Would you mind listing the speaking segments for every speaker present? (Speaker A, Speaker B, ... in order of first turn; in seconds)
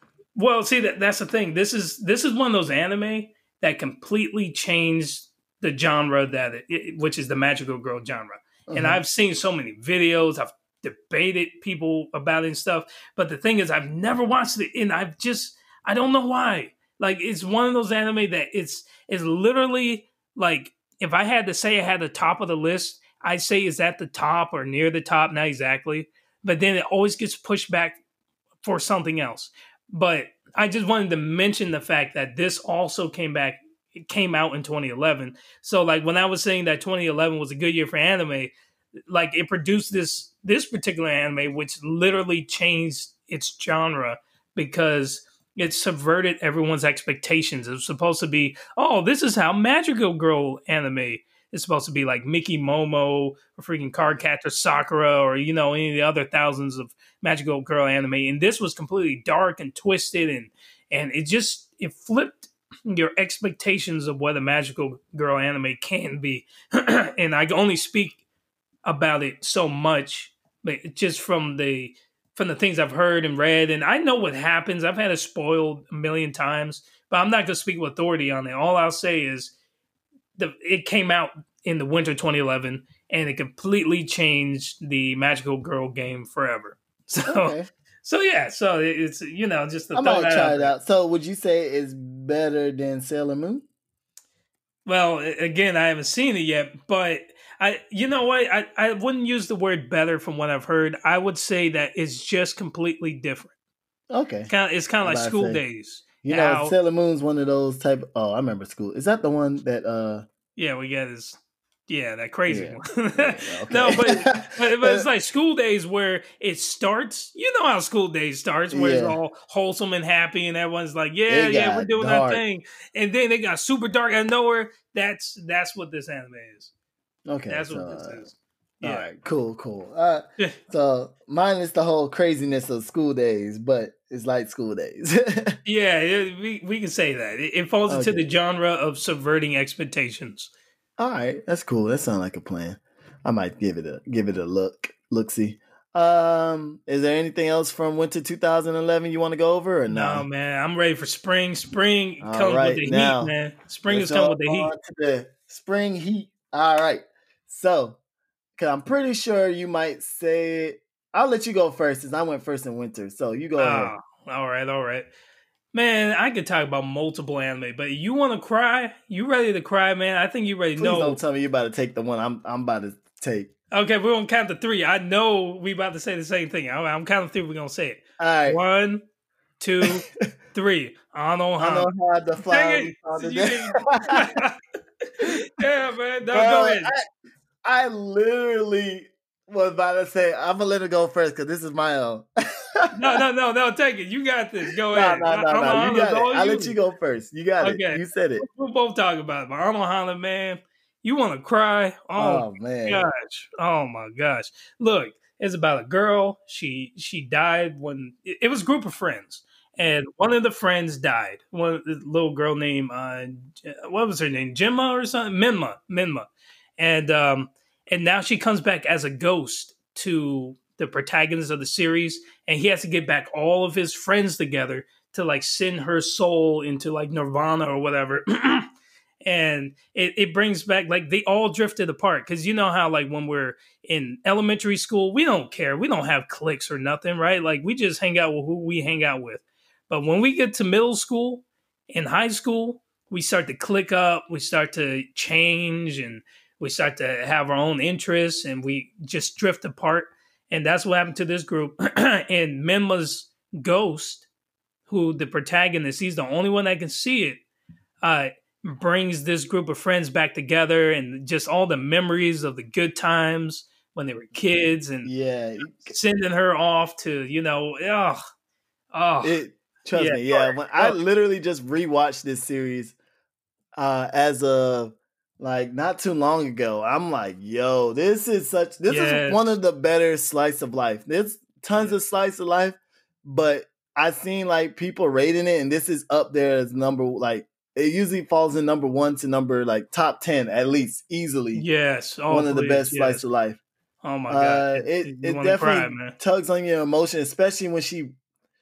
Speaker A: 0.4-28.0, 28.6-38.5, 39.1-68.2, 68.8-79.5, 80.4-90.8, 94.9-103.5, 104.5-106.7, 110.6-126.7, 127.5-129.1, 135.7-140.5, 149.9-154.7, 163.6-165.1, 165.7-171.2, 173.7-179.0, 179.6-181.9, 182.5-186.9, 192.9-196.8, 197.6-228.7, 229.2-254.3, 254.9-257.4, 258.0-265.1, 265.8-268.2, 268.9-269.4, 269.9-271.0, 278.9-279.6, 291.5-293.2, 294.0-296.1
Speaker B: 8.7-9.0, 87.3-87.7, 89.9-93.7, 104.1-104.5, 105.0-105.6, 106.2-110.2, 112.5-115.1, 118.7-119.2, 121.3-122.4, 127.3-128.3, 128.8-135.6, 137.9-138.3, 141.0-150.3, 152.2-153.3, 153.9-158.0, 158.6-163.9, 170.8-173.5, 178.2-178.6, 181.6-184.4, 186.3-187.1, 187.6-193.2, 194.9-198.4, 202.2-203.1, 265.0-265.9, 269.2-273.0, 273.8-291.6, 292.3-293.6, 294.3-298.1